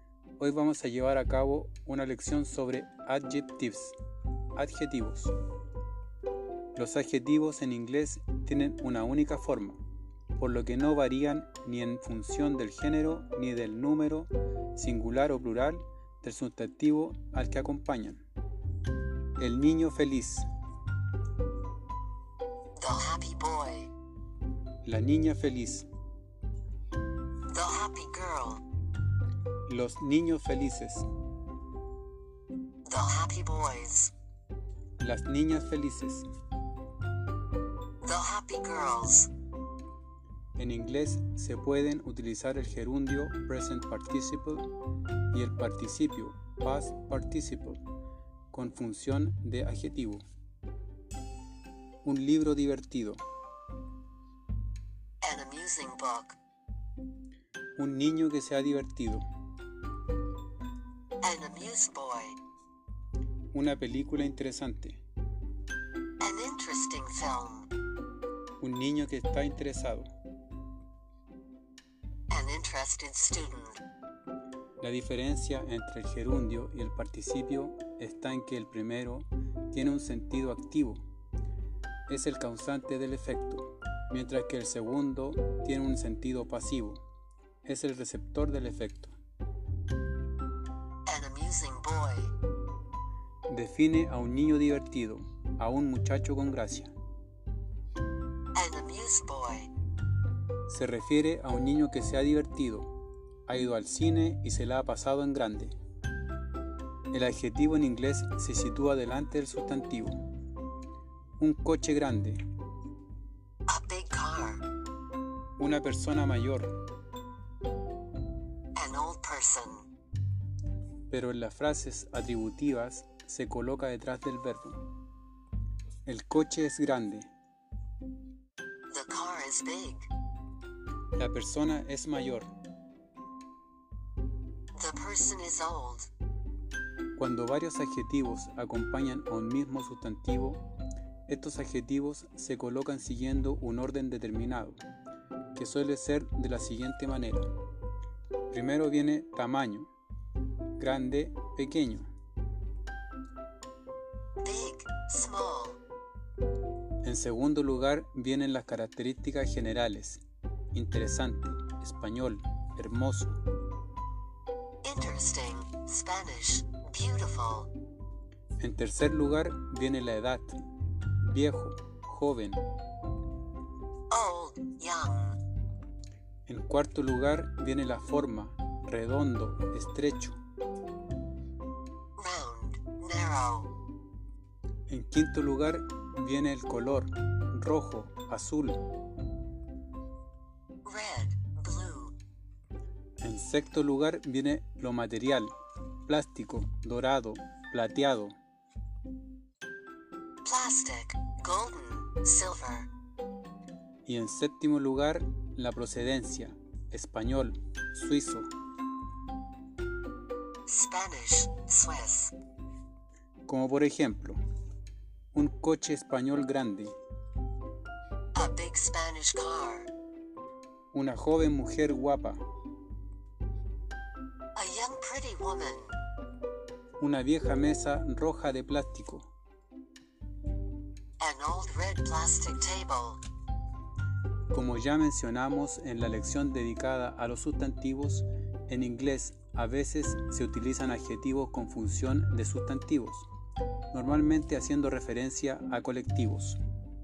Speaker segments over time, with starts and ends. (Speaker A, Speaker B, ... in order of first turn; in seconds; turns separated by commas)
Speaker A: 0.4-4.0, Speaker A: 4.5-5.3, Speaker A: 6.8-9.8, Speaker A: 10.4-18.2, Speaker A: 19.4-20.4, Speaker B: 22.8-23.9, Speaker A: 24.8-25.9, Speaker B: 27.5-28.6, Speaker A: 29.7-31.1, Speaker B: 32.8-34.1, Speaker A: 35.0-36.3, Speaker B: 38.0-39.3, Speaker A: 40.5-44.6, Speaker A: 45.3-47.8, Speaker A: 48.5-50.2, Speaker A: 52.0-53.2, Speaker B: 55.2-56.4, Speaker A: 57.8-59.2, Speaker B: 61.2-62.4, Speaker A: 63.5-65.0, Speaker B: 66.2-67.7, Speaker A: 68.6-70.1, Speaker B: 72.3-73.8, Speaker A: 74.8-81.0, Speaker A: 82.1-87.0, Speaker A: 87.7-89.1, Speaker B: 91.1-92.3, Speaker A: 93.5-96.9, Speaker B: 98.5-99.7, Speaker A: 100.7-102.9, Speaker A: 103.5-105.8, Speaker A: 107.1-110.2, Speaker A: 111.4-112.4, Speaker B: 113.7-114.6, Speaker A: 115.6-116.7, Speaker B: 118.8-119.8, Speaker A: 121.1-124.8, Speaker A: 126.1-127.3, Speaker B: 128.9-130.1, Speaker A: 131.2-132.5, Speaker B: 134.8-136.1, Speaker A: 137.2-140.6, Speaker A: 141.3-144.8, Speaker A: 145.5-147.5, Speaker A: 148.5-149.9, Speaker A: 150.8-152.1, Speaker B: 154.4-155.8, Speaker A: 157.0-163.4, Speaker B: 164.8-167.7, Speaker A: 168.6-170.6, Speaker A: 171.2-172.6, Speaker B: 174.1-175.4, Speaker A: 176.5-180.4, Speaker B: 182.2-183.7, Speaker A: 184.9-188.8, Speaker B: 190.8-192.2, Speaker A: 193.2-195.5, Speaker A: 196.1-198.3, Speaker B: 200.4-202.9, Speaker A: 204.1-208.5, Speaker B: 210.7-212.3, Speaker A: 213.4-214.4, Speaker A: 215.3-216.9, Speaker B: 218.3-219.9, Speaker A: 220.9-222.4, Speaker B: 224.5-225.9, Speaker A: 227.0-229.3, Speaker B: 231.2-233.2, Speaker A: 234.5-243.3, Speaker A: 243.9-246.6